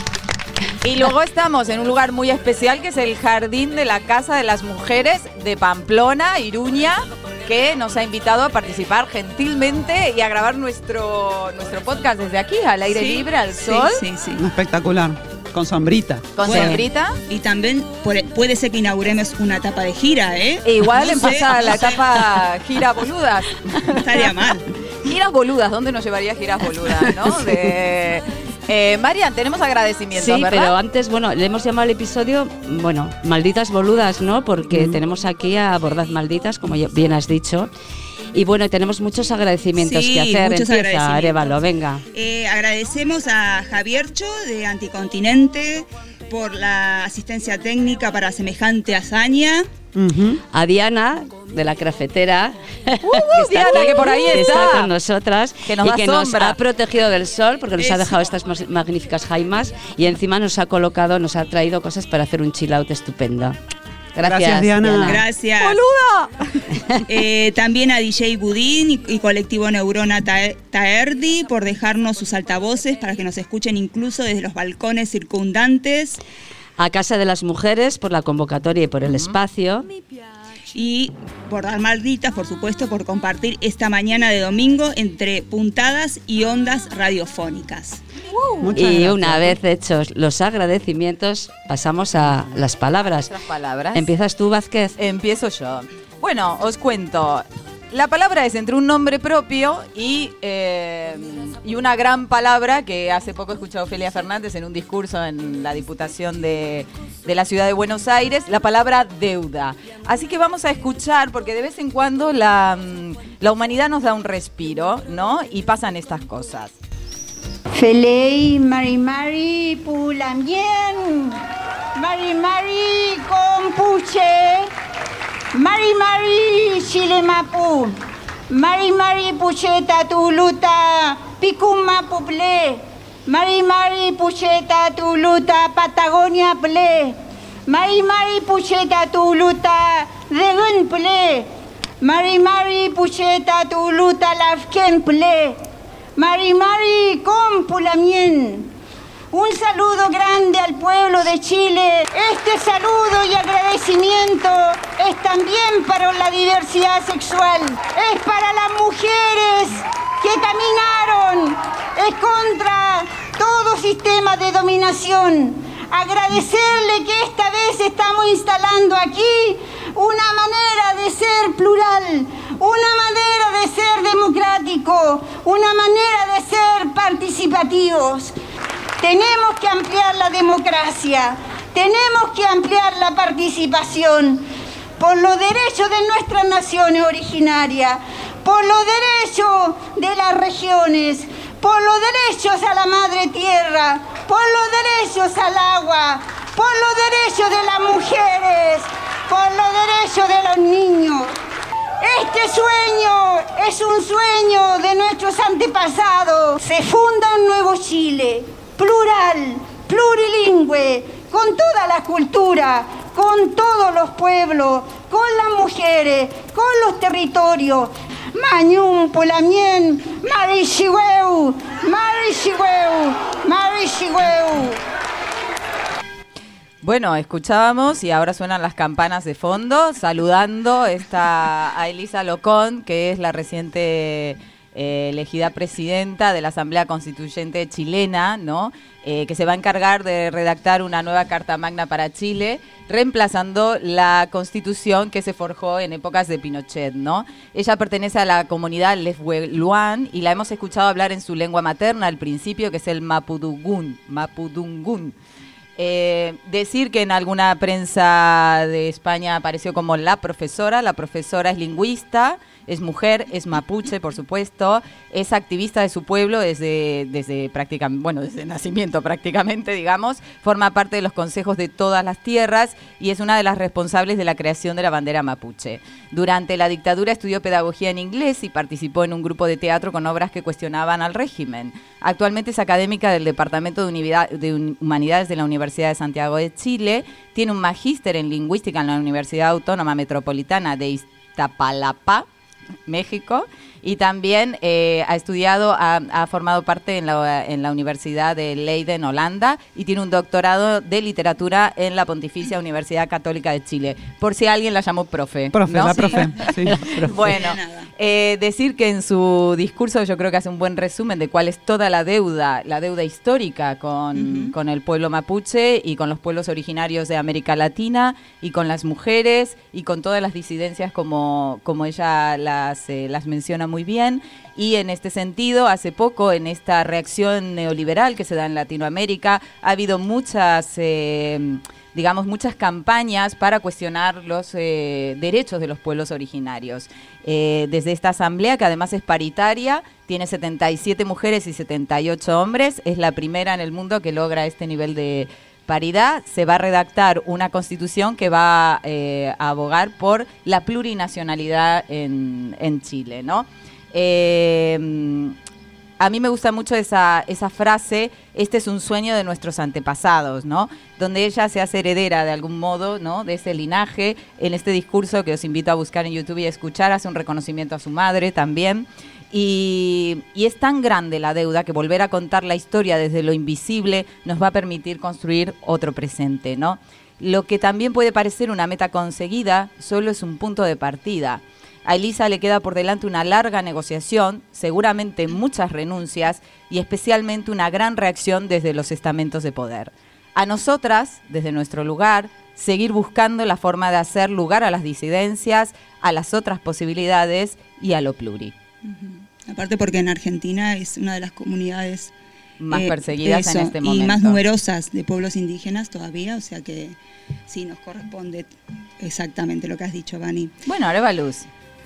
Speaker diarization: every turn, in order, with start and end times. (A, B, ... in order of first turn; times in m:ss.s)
0:00.8-0:14.0 A
0:12.9-0:14.4 B
0:14.4-0:16.4 C
0:16.4-0:17.2 A
0:16.4-0:16.8 D
0:16.5-0:22.0 B
0:20.6-0:24.2 A
0:24.0-0:24.6 B
0:25.0-0:30.7 A
0:30.1-0:37.7 D
0:38.3-0:42.0 D
0:39.8-0:49.7 B
0:49.9-0:50.4 C
0:50.5-1:03.6 D
0:53.0-0:54.9 A
0:55.6-0:56.6 A
0:57.8-0:58.2 B
1:04.1-1:05.2 D
1:04.2-1:05.2 C
1:05.0-1:05.8 B
1:07.1-1:16.2 B
1:16.8-1:19.8 D
1:19.0-1:19.4 A
1:20.7-1:28.0 B
1:28.6-1:29.6 C
1:28.7-1:33.3 D
1:33.2-1:34.1 A
1:33.9-1:35.0 D
1:35.0-1:56.8 A
1:57.7-2:01.4 E
2:02.0-2:04.7 E
2:05.5-2:08.0 E
2:08.5-2:17.2 E
2:17.7-2:21.5 E
2:22.0-2:25.6 E
2:26.2-2:28.7 E
2:29.3-2:58.3 E
2:59.0-3:04.4 E
3:05.0-3:21.3 E
3:22.0-3:44.8 E
3:46.8-4:15.1 A
4:15.8-4:52.2 A
4:52.8-5:06.3 A
5:05.5-5:06.8 C
5:06.6-5:07.3 D
5:07.0-5:55.4 A
5:07.3-5:07.9 B
5:14.1-5:14.5 B
5:56.0-6:38.5 A
6:38.8-6:42.1 B
6:42.6-6:44.4 A
6:42.7-6:47.0 B
6:47.5-6:50.5 B
6:50.6-6:51.5 A